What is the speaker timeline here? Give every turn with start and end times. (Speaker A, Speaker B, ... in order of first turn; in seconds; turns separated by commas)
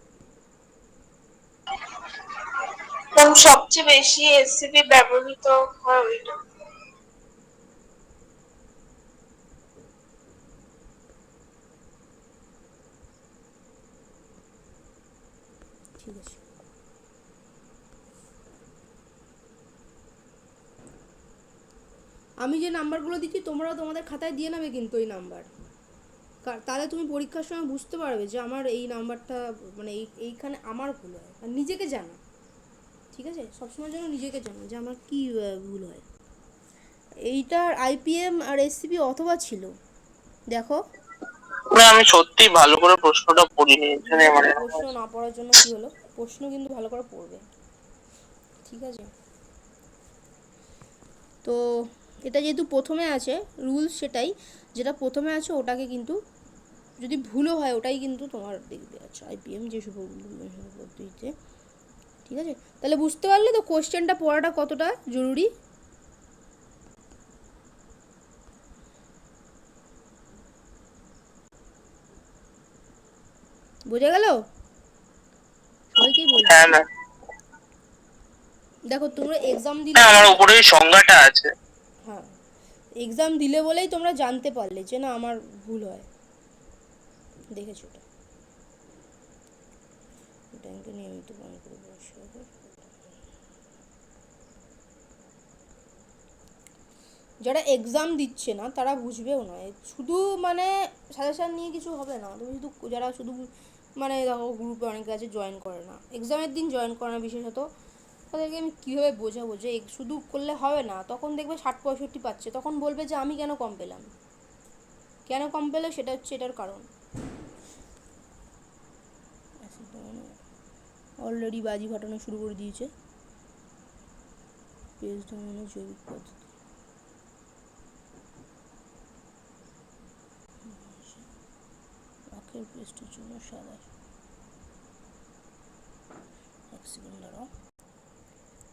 Speaker A: 3.2-6.3, Speaker B: 16.0-16.4, Speaker B: 22.4-25.5, Speaker B: 26.4-32.2, Speaker B: 33.1-36.0, Speaker B: 37.3-39.7, Speaker B: 40.5-40.8, Speaker C: 41.7-44.8, Speaker B: 44.0-47.4, Speaker B: 48.6-49.1, Speaker B: 51.4-56.2, Speaker B: 57.0-61.3, Speaker B: 62.2-65.5, Speaker B: 73.9-74.3, Speaker B: 75.9-76.8, Speaker C: 76.4-76.8, Speaker B: 78.9-80.4, Speaker C: 80.0-81.5, Speaker B: 83.0-86.1, Speaker B: 87.5-88.0, Speaker B: 90.5-93.1, Speaker B: 97.4-107.7, Speaker B: 108.3-114.1, Speaker B: 115.3-116.8, Speaker B: 119.6-120.3, Speaker B: 121.2-122.9, Speaker B: 125.0-126.5, Speaker B: 130.6-131.3, Speaker B: 132.3-133.9, Speaker B: 136.7-137.5